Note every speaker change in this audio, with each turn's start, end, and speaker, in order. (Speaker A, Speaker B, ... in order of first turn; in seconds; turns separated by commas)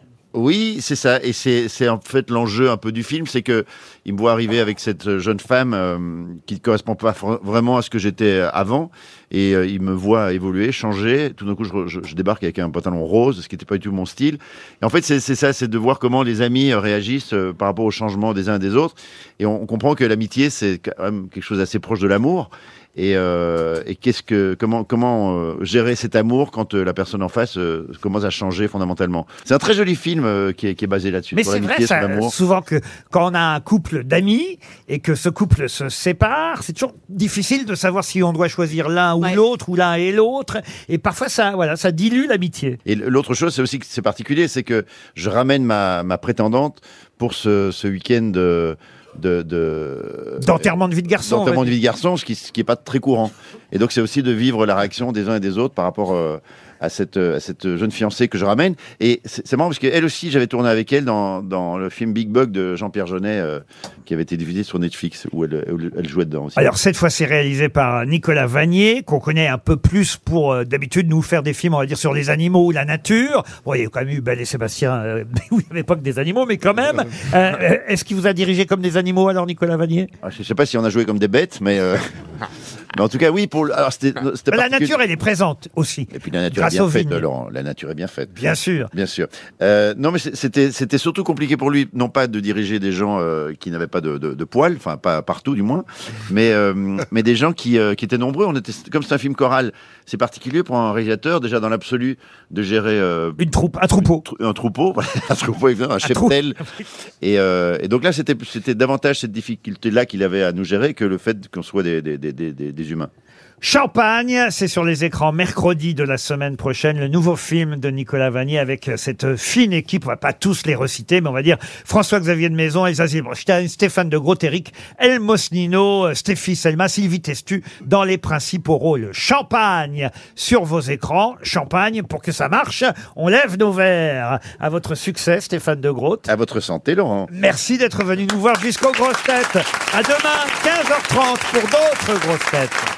Speaker A: 0.3-32.3, Speaker B: 31.3-42.8, Speaker A: 42.9-50.7, Speaker B: 50.4-51.7, Speaker A: 51.2-66.7, Speaker B: 66.6-80.1, Speaker A: 80.2-82.0, Speaker A: 82.9-85.0, Speaker B: 84.5-87.2, Speaker A: 86.1-88.3, Speaker B: 88.3-88.9, Speaker A: 88.9-103.4, Speaker B: 103.4-104.2, Speaker A: 104.0-106.6, Speaker B: 106.0-106.3, Speaker A: 107.2-113.1, Speaker B: 113.6-136.3, Speaker A: 136.3-137.3, Speaker B: 137.3-142.9